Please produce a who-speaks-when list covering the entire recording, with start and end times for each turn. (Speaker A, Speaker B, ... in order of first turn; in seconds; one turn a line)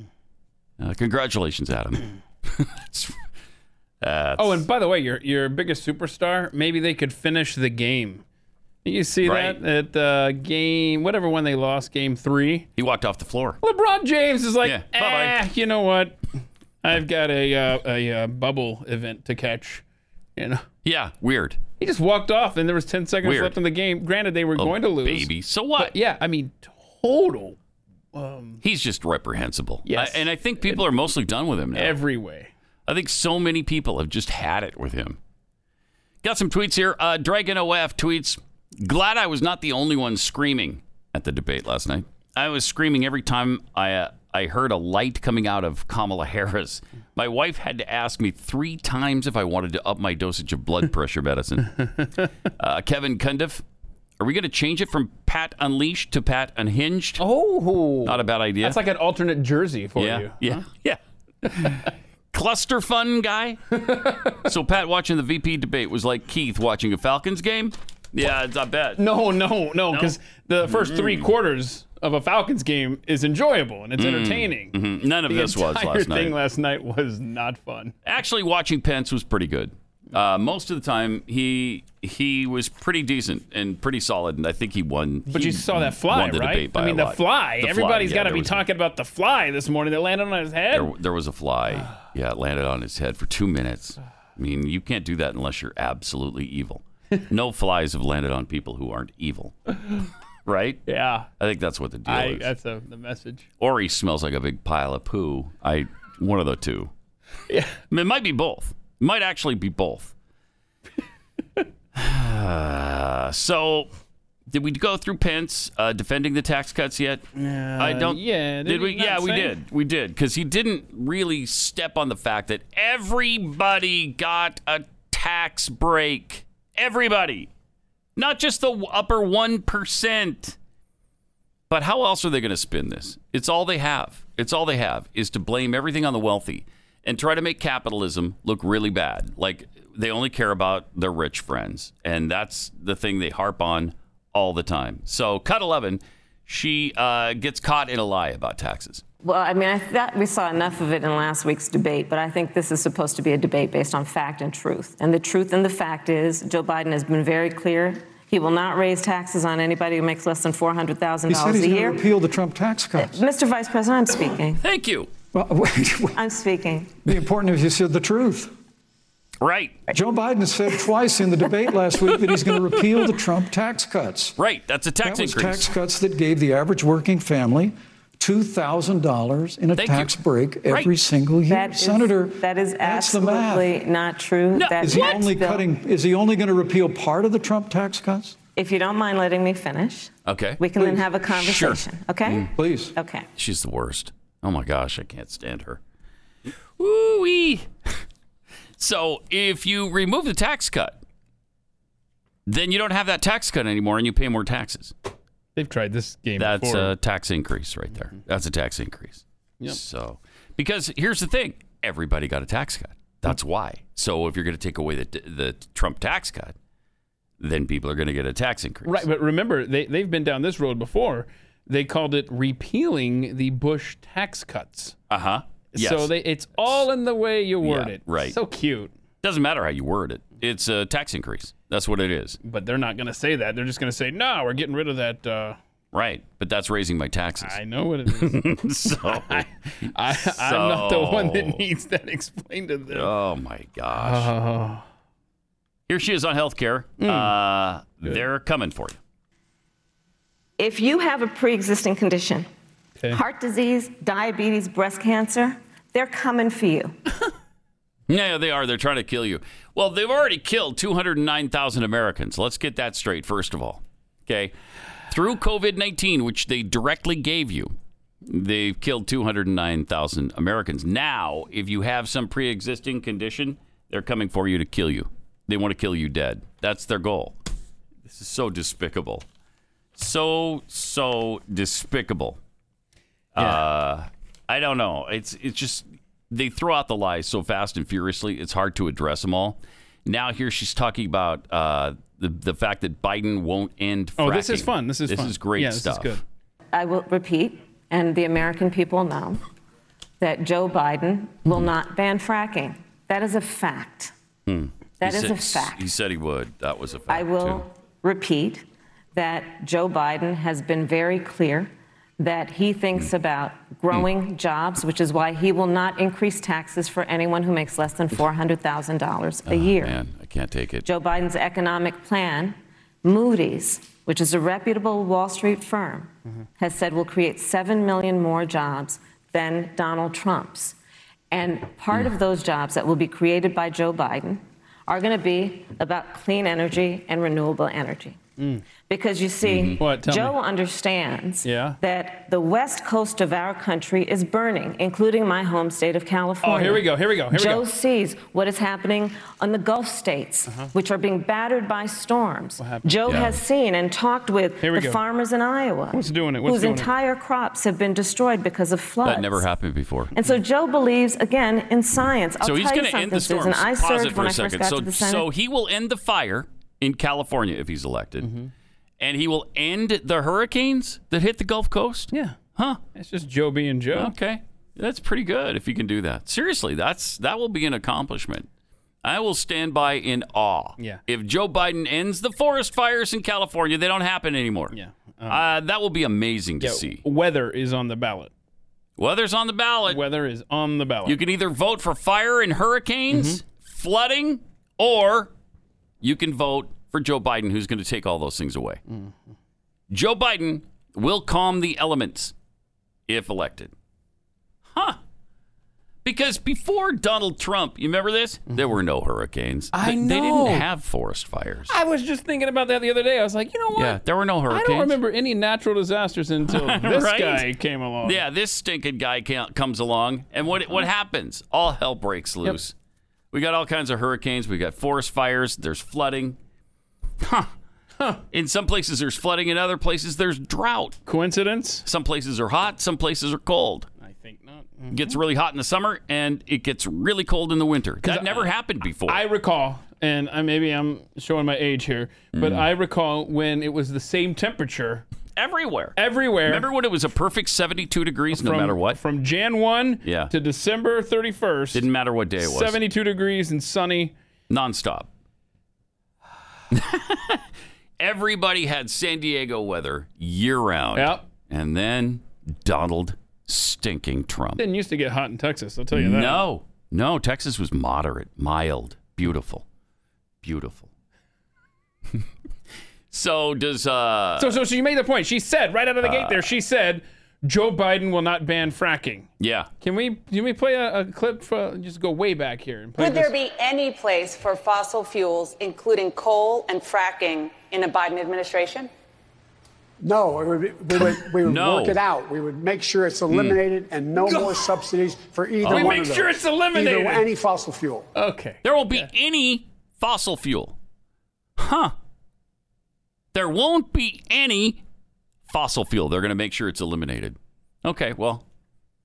Speaker A: 0.8-3.2
Speaker A: 4.0-4.6
Speaker B: 4.4-8.2
Speaker B: 8.8-12.7
Speaker A: 9.2-9.6
Speaker A: 12.8-13.6
Speaker B: 13.6-16.2
Speaker A: 14.6-15.4
Speaker B: 16.8-19.8
Speaker B: 20.4-20.6
Speaker A: 20.8-21.6
Speaker B: 21.8-27.6
Speaker A: 23.2-23.6
Speaker A: 24.6-25.9
Speaker B: 28.1-28.6
Speaker A: 28.6-32.0
Speaker B: 29.8-30.9
Speaker B: 31.7-32.5
Speaker A: 32.9-35.2
Speaker A: 36.2-51.8
Speaker A: 52.6-53.6
Speaker A: 54.2-57.2
Speaker B: 57.2-60.6
Speaker A: 58.0-58.8
Speaker A: 60.0-63.6
Speaker B: 63.7-64.4
Speaker A: 64.4-69.0
Speaker B: 69.0-74.8
Speaker A: 69.9-71.3
Speaker A: 74.0-76.4
Speaker B: 75.3-78.0
Speaker A: 78.0-88.6
Speaker B: 85.3-90.9
Speaker A: 90.7-99.5
Speaker A: 100.5-100.8
Speaker B: 100.9-101.3
Speaker A: 101.4-102.5
Speaker B: 102.0-103.5
Speaker A: 103.6-106.9
Speaker B: 107.5-107.8
Speaker A: 107.9-110.1
Speaker A: 112.0-113.9
Speaker A: 114.5-117.2
Speaker B: 117.4-119.5
Speaker A: 117.8-127.5
Speaker A: 128.2-130.6
Speaker A: 131.7-149.0
Speaker C: 149.2-162.0
Speaker D: 161.3-163.2
Speaker C: 163.0-164.6
Speaker A: 164.6-165.1
Speaker D: 165.3-166.2
Speaker C: 166.2-166.9
Speaker D: 167.1-168.5
Speaker A: 169.4-169.8
Speaker D: 169.9-174.4
Speaker A: 174.4-175.7
Speaker D: 175.0-183.7
Speaker A: 179.8-180.2
Speaker A: 180.7-180.9
Speaker C: 181.5-185.7
Speaker A: 184.5-185.2
Speaker D: 184.8-188.4
Speaker C: 188.6-193.3
Speaker A: 190.3-190.6
Speaker A: 191.3-192.5
Speaker D: 192.6-192.9
Speaker A: 193.4-195.8
Speaker A: 196.8-197.9
Speaker A: 198.8-201.0
Speaker A: 202.5-204.9
Speaker B: 205.6-206.9
Speaker A: 206.4-216.6
Speaker A: 217.4-219.1
Speaker B: 218.8-224.9
Speaker A: 225.1-226.9
Speaker B: 225.7-228.9
Speaker A: 227.6-228.4
Speaker A: 229.2-232.4
Speaker B: 232.4-235.6
Speaker A: 235.9-241.6
Speaker B: 237.4-243.1
Speaker A: 242.9-244.3
Speaker B: 243.9-244.8
Speaker A: 245.9-249.0
Speaker B: 247.0-247.3
Speaker C: 250.6-252.5
Speaker C: 253.1-256.9
Speaker A: 258.1-264.5
Speaker A: 265.1-267.7
Speaker A: 268.3-277.4
Speaker A: 278.1-279.2
Speaker A: 279.9-282.4
Speaker A: 283.3-296.2
Speaker B: 294.2-296.2
Speaker C: 296.7-299.4
Speaker C: 300.2-304.1
Speaker A: 304.5-307.6
Speaker C: 305.0-305.8
Speaker C: 307.1-308.6
Speaker C: 309.1-319.9
Speaker A: 319.5-320.9
Speaker C: 320.8-330.8
Speaker C: 331.3-338.2
Speaker B: 338.4-338.6
Speaker C: 338.9-359.4
Speaker A: 339.4-339.8
Speaker B: 339.8-340.3
Speaker B: 341.4-341.8
Speaker B: 346.4-347.6
Speaker B: 352.6-352.9
Speaker A: 353.1-353.4
Speaker B: 354.6-355.0
Speaker B: 355.9-356.9
Speaker A: 359.0-360.1
Speaker C: 360.1-365.3
Speaker A: 362.4-368.3
Speaker B: 368.2-368.5
Speaker A: 369.0-372.8
Speaker B: 372.1-372.4
Speaker B: 372.9-374.1
Speaker A: 373.9-378.5
Speaker A: 379.0-384.8
Speaker B: 384.7-385.4
Speaker A: 385.3-387.0
Speaker B: 386.6-388.3
Speaker A: 389.0-390.1
Speaker B: 389.9-391.2
Speaker A: 391.1-395.3
Speaker B: 393.1-393.4
Speaker A: 396.0-398.8
Speaker B: 398.9-399.2
Speaker A: 399.9-402.3
Speaker A: 403.1-403.7
Speaker A: 406.0-411.8
Speaker B: 409.7-410.7
Speaker B: 411.7-418.2
Speaker A: 413.7-414.9
Speaker A: 416.5-417.5
Speaker A: 418.0-422.7
Speaker A: 423.3-426.4
Speaker A: 427.2-427.5
Speaker A: 428.3-431.0
Speaker B: 431.1-431.8
Speaker A: 431.8-433.9
Speaker B: 434.0-435.2
Speaker A: 434.9-439.2
Speaker B: 438.0-438.5
Speaker B: 439.1-445.1
Speaker A: 442.3-442.7
Speaker A: 445.4-449.0
Speaker B: 445.9-446.7
Speaker B: 448.3-451.8
Speaker A: 450.0-450.3
Speaker A: 451.7-452.8
Speaker B: 452.4-454.1
Speaker A: 454.5-455.1
Speaker A: 456.7-457.4
Speaker A: 458.0-464.6
Speaker B: 460.9-461.2
Speaker B: 464.6-466.4
Speaker A: 465.9-469.6
Speaker A: 470.4-470.9
Speaker A: 473.1-474.6
Speaker B: 474.4-479.3
Speaker A: 476.0-476.5
Speaker A: 479.4-479.7
Speaker B: 479.8-483.4
Speaker E: 483.4-488.9
Speaker F: 490.0-498.1
Speaker A: 491.0-492.0
Speaker A: 493.3-493.6
Speaker B: 494.2-494.6
Speaker B: 495.6-497.3
Speaker A: 495.7-496.0
Speaker B: 498.1-499.1
Speaker A: 498.6-500.8
Speaker A: 501.6-501.9
Speaker A: 503.3-504.8
Speaker A: 505.5-508.4